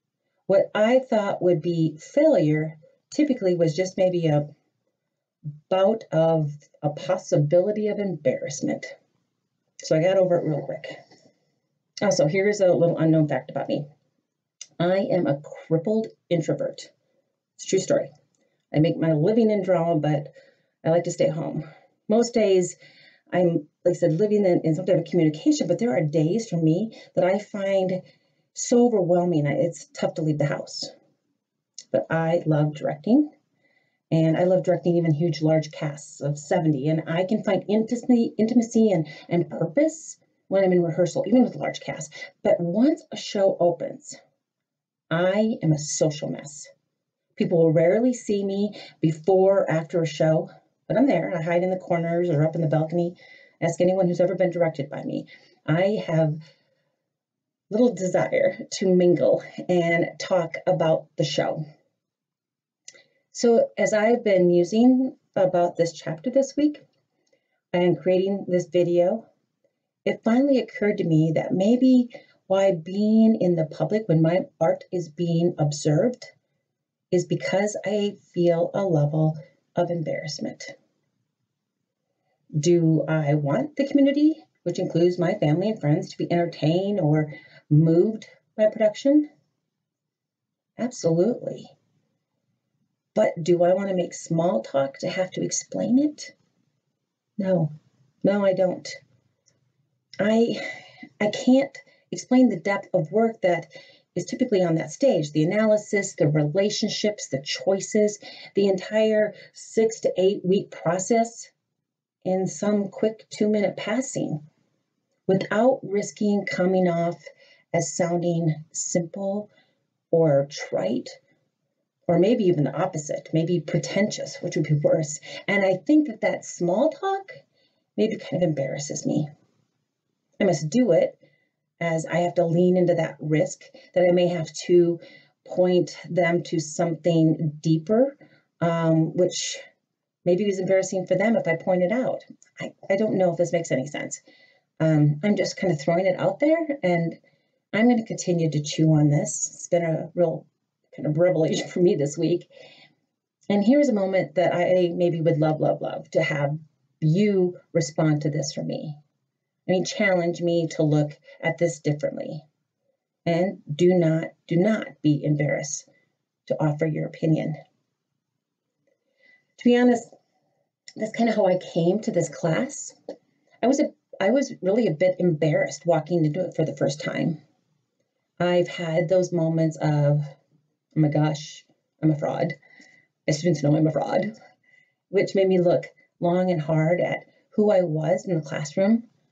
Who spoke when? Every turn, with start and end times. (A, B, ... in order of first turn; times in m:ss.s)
0:00.5-0:04.4 A
0:05.7-0:08.9 A
0:09.8-0:11.0 A
0:12.0-0:13.8 A
0:14.8-0:16.9 A
0:17.6-0:18.1 A
0:18.7-0:20.3 A
0:20.8-0:22.8 A
0:23.3-0:28.0 A
0:28.5-0:30.9 A
0:31.9-0:33.3 A
0:34.1-0:44.2 A
0:45.1-0:46.7 A
0:47.4-0:56.4 A
0:57.7-1:01.6 A
1:03.3-1:06.8 A
1:07.7-1:09.2 A
1:10.0-1:16.3 A
1:17.1-1:20.7 A
1:22.6-1:29.3 A
1:30.8-1:31.7 A
1:33.2-1:36.3 A
1:37.4-1:37.7 A
1:38.2-1:39.0 A
1:40.2-1:40.6 A
1:41.2-1:51.5 A
1:52.2-1:54.4 A
1:55.3-1:59.5 A
2:00.1-2:01.2 A
2:02.1-2:07.4 A
2:08.0-2:09.3 A
2:10.4-2:11.2 A
2:11.8-2:19.6 A
2:20.2-2:24.2 A
2:24.8-2:27.2 A
2:27.7-2:32.5 A
2:33.5-2:39.0 A
2:39.7-2:42.4 A
2:43.2-2:45.9 A
2:46.5-2:47.6 A
2:49.6-2:50.1 A
2:51.0-2:53.0 A
2:53.6-2:57.4 A
2:58.4-3:00.2 A
3:01.0-3:02.6 A
3:03.3-3:04.3 A
3:05.1-3:09.0 A